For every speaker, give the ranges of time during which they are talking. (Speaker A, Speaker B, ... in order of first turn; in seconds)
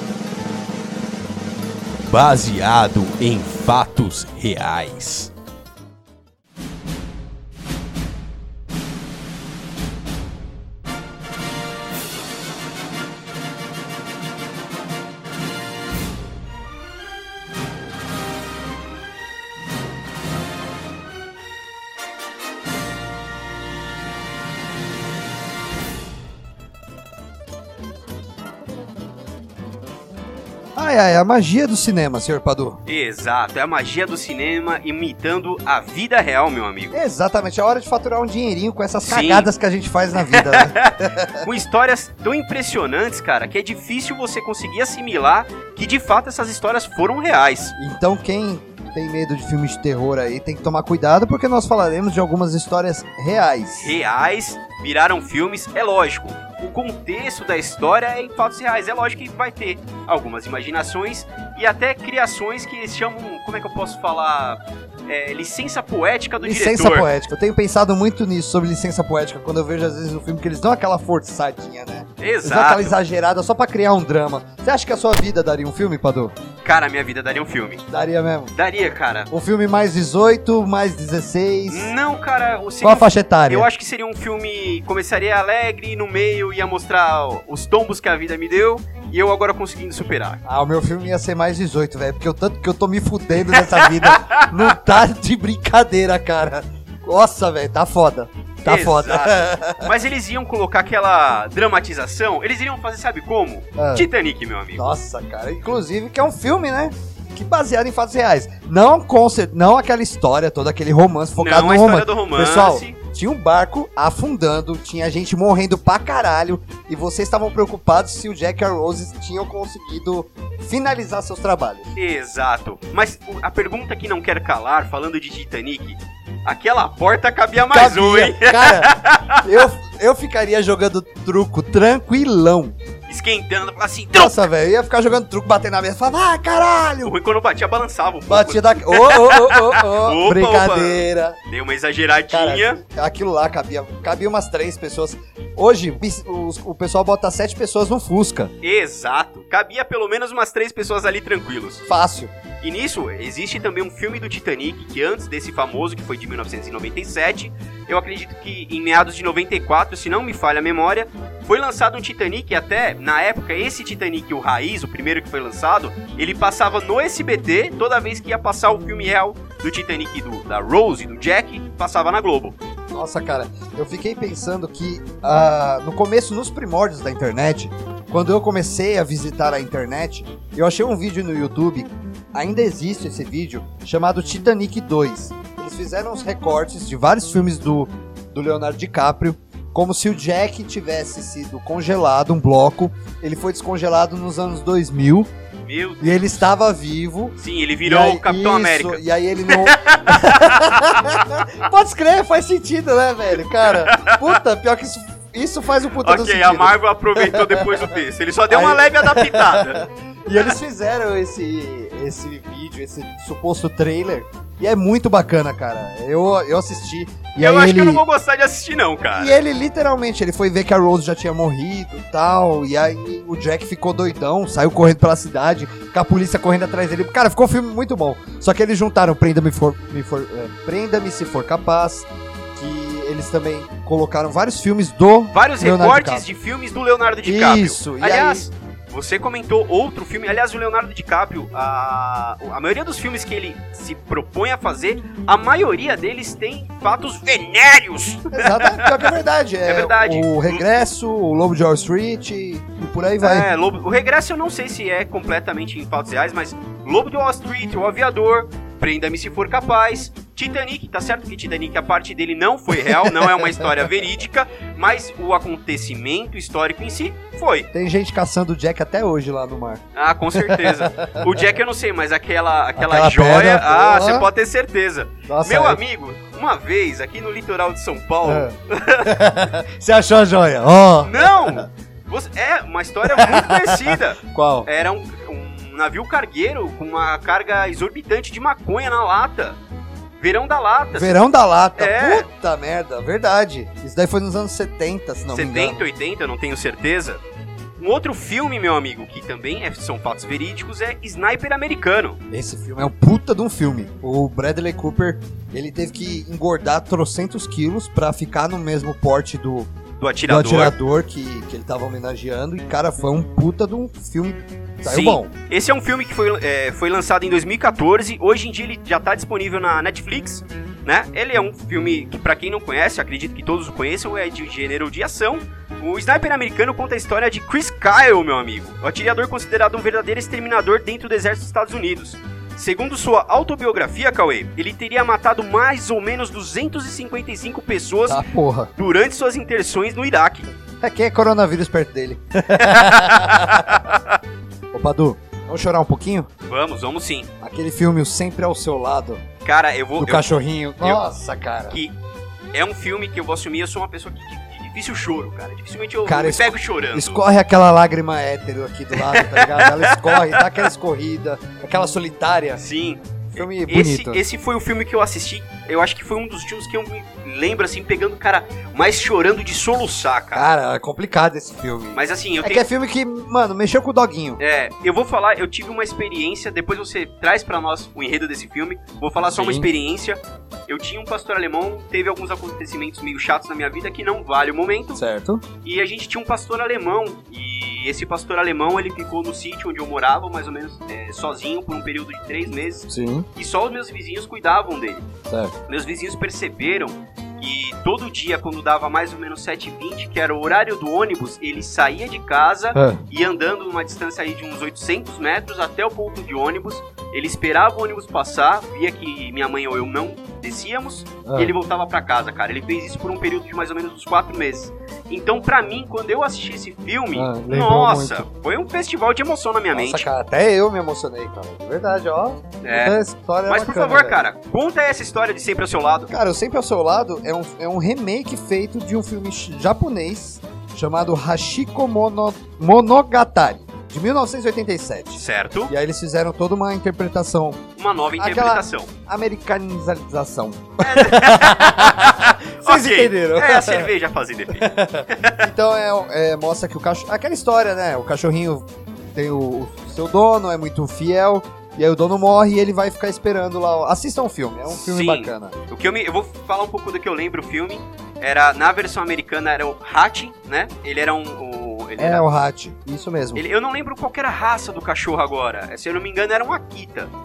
Speaker A: 2.1-5.3, 32.9-37.0, 39.0-39.5, 40.1-47.7, 53.7-67.1, 72.2-73.0, 76.6-77.8, 78.5-79.3, 81.7-90.4, 93.5-94.7, 98.6-104.8, 111.3-113.0, 121.9-129.7, 133.1-134.4, 137.0-142.8, 148.6-151.8, 152.6-172.6, 195.6-196.4, 197.4-201.2, 203.7-204.4, 206.0-209.8, 217.4-219.4, 235.3-249.1, 249.6-250.9, 253.2-267.7, 269.9-279.1, 281.0-289.6, 290.2-291.2, 291.8-292.2, 295.3-297.2, 297.8-302.2, 310.0-310.8, 314.8-338.2, 338.8-340.5, 342.6-344.2, 346.5-347.3, 349.4-351.0, 352.5-357.2, 358.9-360.4, 362.6-370.4, 371.9-372.6, 374.4-385.0, 385.6-395.1, 395.7-420.1, 422.6-426.1, 435.1-435.7, 437.8-438.9, 440.8-445.5, 454.7-462.3, 463.3-467.1
Speaker B: 30.8-32.8, 36.9-41.5, 47.8-53.9, 66.4-76.3, 77.9-78.5, 79.3-81.9, 82.8-83.7, 90.5-99.9, 103.8-104.1, 104.8-121.9, 127.6-132.7, 134.1-137.1, 138.3-141.4, 142.3-148.5, 151.8-152.3, 172.9-195.3, 196.0-207.8, 208.5-218.0, 219.1-236.3, 237.2-238.5, 248.3-253.5, 263.0-263.6, 267.7-269.8, 270.3-271.4, 272.8-274.3, 275.3-275.8, 278.2-281.7, 283.0-284.7, 290.9-295.8, 302.3-309.7, 310.2-315.3, 338.1-338.7, 340.8-343.8, 344.7-346.3, 347.4-349.2, 350.0-351.8, 356.1-362.6, 363.3-364.2, 370.3-374.4, 379.3-379.7, 384.9-385.4, 392.9-393.2, 395.3-395.5, 402.7-403.0, 411.2-411.5, 417.1-418.3, 419.7-424.2, 426.1-437.6, 438.2-443.9, 444.6-455.5, 462.0-463.4